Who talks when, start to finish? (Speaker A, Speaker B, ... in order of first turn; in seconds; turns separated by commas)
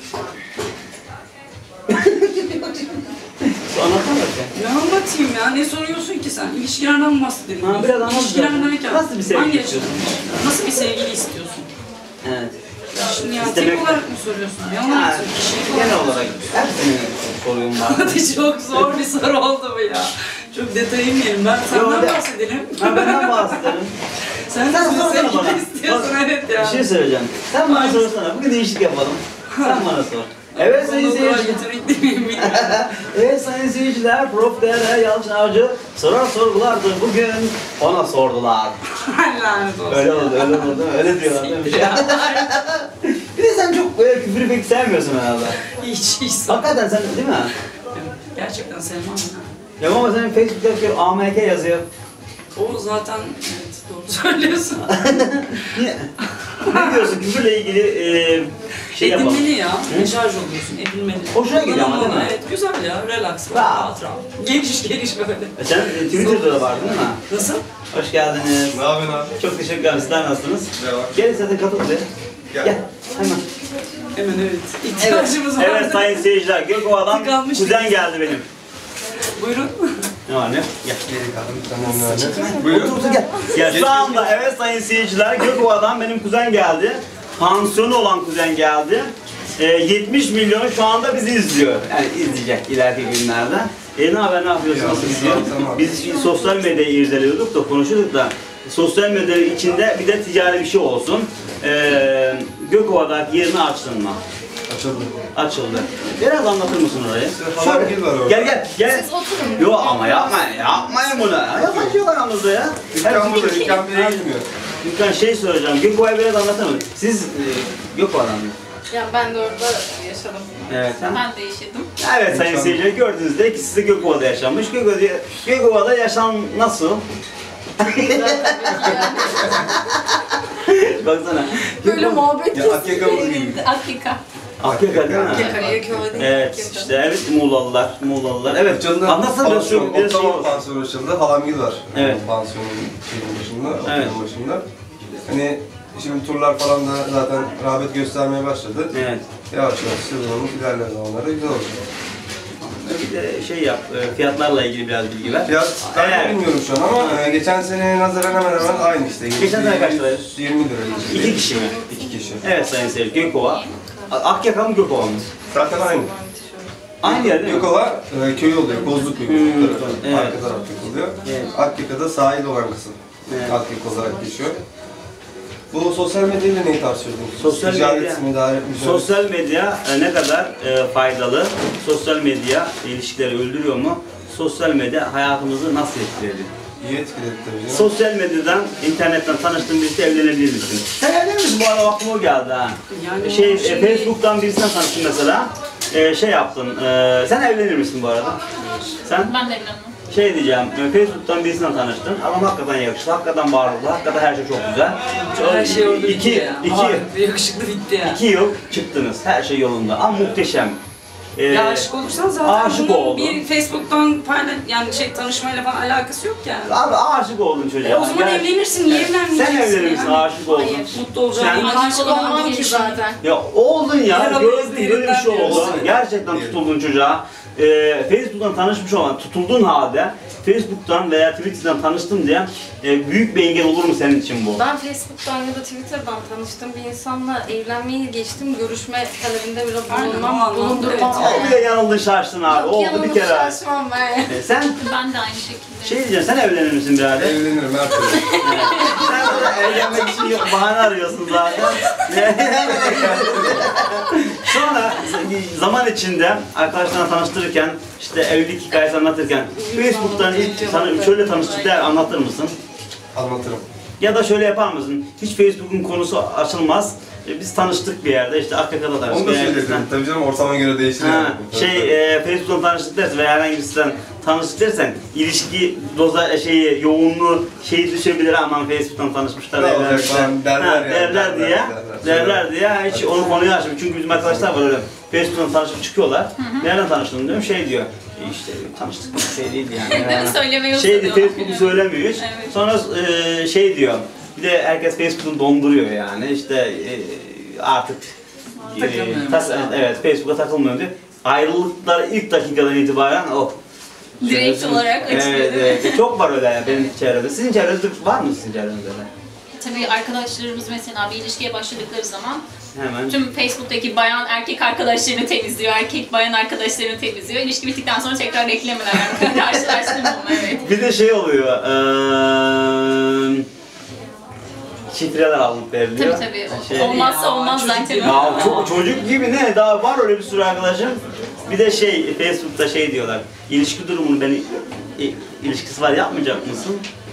Speaker A: 1.9-4.5, Speaker B: 4.5-11.7, Speaker A: 7.6-10.0, Speaker A: 12.2-12.6, Speaker B: 12.9-16.6, Speaker A: 13.4-14.0, Speaker A: 14.8-18.9, Speaker B: 17.8-23.8, Speaker A: 21.7-22.2, Speaker A: 22.8-23.9, Speaker B: 24.5-26.9, Speaker A: 24.6-31.6, Speaker B: 27.6-28.1, Speaker B: 29.5-29.9, Speaker B: 30.5-33.0, Speaker A: 32.4-38.8, Speaker B: 39.0-42.5, Speaker A: 39.9-45.6, Speaker B: 45.7-46.7, Speaker A: 46.5-47.5, Speaker B: 47.9-49.5, Speaker A: 49.8-51.9, Speaker B: 52.5-55.7, Speaker A: 54.8-56.1, Speaker B: 56.4-57.2, Speaker A: 56.6-60.1, Speaker B: 58.9-67.6, Speaker A: 61.3-62.3, Speaker A: 63.5-63.9, Speaker A: 65.6-67.3, Speaker A: 67.9-68.8, Speaker C: 68.7-69.3, Speaker A: 69.4-72.1, Speaker C: 70.8-71.4, Speaker C: 72.5-72.7, Speaker A: 72.6-73.4, Speaker B: 74.1-78.3, Speaker A: 75.0-78.5, Speaker B: 79.4-80.1, Speaker A: 80.3-81.0, Speaker C: 81.0-83.1, Speaker B: 81.9-84.2, Speaker A: 82.3-104.2, Speaker C: 94.6-96.0, Speaker C: 104.7-105.1, Speaker A: 105.3-114.3, Speaker C: 107.3-108.6, Speaker D: 108.8-110.8, Speaker C: 111.5-112.0, Speaker C: 112.9-114.5, Speaker A: 114.8-118.5, Speaker D: 118.9-120.9, Speaker A: 120.7-121.2, Speaker E: 120.9-121.9, Speaker A: 122.0-127.0, Speaker C: 122.3-122.9, Speaker A: 127.8-132.2, Speaker D: 127.8-129.7, Speaker D: 131.8-133.5, Speaker C: 132.5-133.7, Speaker E: 133.0-134.2, Speaker A: 134.6-140.6, Speaker C: 134.6-136.3, Speaker D: 135.3-136.9, Speaker C: 138.6-148.9, Speaker A: 141.9-142.2, Speaker A: 143.8-144.2, Speaker A: 148.9-149.2, Speaker C: 149.5-151.8, Speaker A: 152.6-156.4, Speaker C: 155.4-162.4, Speaker A: 156.9-157.2, Speaker A: 159.4-160.3, Speaker A: 161.0-161.8, Speaker D: 161.1-162.4, Speaker A: 162.4-165.2, Speaker D: 163.8-164.1, Speaker D: 165.5-166.7, Speaker C: 165.5-166.1, Speaker A: 167.0-167.7, Speaker C: 167.0-174.6, Speaker B: 168.6-169.6, Speaker A: 169.2-170.4, Speaker B: 170.4-171.6, Speaker A: 171.2-171.6, Speaker A: 173.3-173.6, Speaker C: 175.7-179.1, Speaker A: 177.4-186.5, Speaker C: 186.8-187.9, Speaker A: 187.7-198.4, Speaker B: 192.9-194.1, Speaker B: 198.6-198.9, Speaker A: 199.0-199.3, Speaker E: 199.1-199.9, Speaker A: 200.1-207.0, Speaker B: 205.1-208.2, Speaker A: 208.0-210.8, Speaker A: 211.3-211.9, Speaker B: 211.5-216.8, Speaker A: 212.4-213.4, Speaker A: 216.7-221.8, Speaker B: 217.8-223.0, Speaker E: 221.5-222.8, Speaker D: 221.7-223.2, Speaker A: 223.2-234.6, Speaker B: 224.0-225.9, Speaker C: 225.4-226.6, Speaker D: 234.5-241.6, Speaker B: 239.9-241.6, Speaker A: 241.1-243.6, Speaker D: 242.4-244.4, Speaker A: 244.3-244.8, Speaker E: 244.8-246.0, Speaker A: 245.8-247.4, Speaker C: 247.2-248.5, Speaker A: 248.3-262.5, Speaker D: 248.6-249.0, Speaker E: 249.0-249.6, Speaker C: 252.6-253.7, Speaker D: 259.6-261.3, Speaker E: 260.7-262.0, Speaker C: 263.1-263.6, Speaker A: 264.0-269.9, Speaker C: 269.1-271.9, Speaker A: 271.0-298.1, Speaker C: 279.5-283.4, Speaker C: 284.2-284.5, Speaker E: 286.4-286.7, Speaker E: 289.8-292.6, Speaker A: 298.7-303.6, Speaker B: 298.7-299.9, Speaker E: 304.2-306.1, Speaker A: 304.2-309.1, Speaker E: 306.6-306.9, Speaker E: 309.6-312.4, Speaker A: 312.7-313.2, Speaker E: 313.1-320.7, Speaker A: 320.5-323.4, Speaker A: 324.9-327.2, Speaker E: 325.9-328.7, Speaker B: 326.7-328.8, Speaker A: 328.0-336.8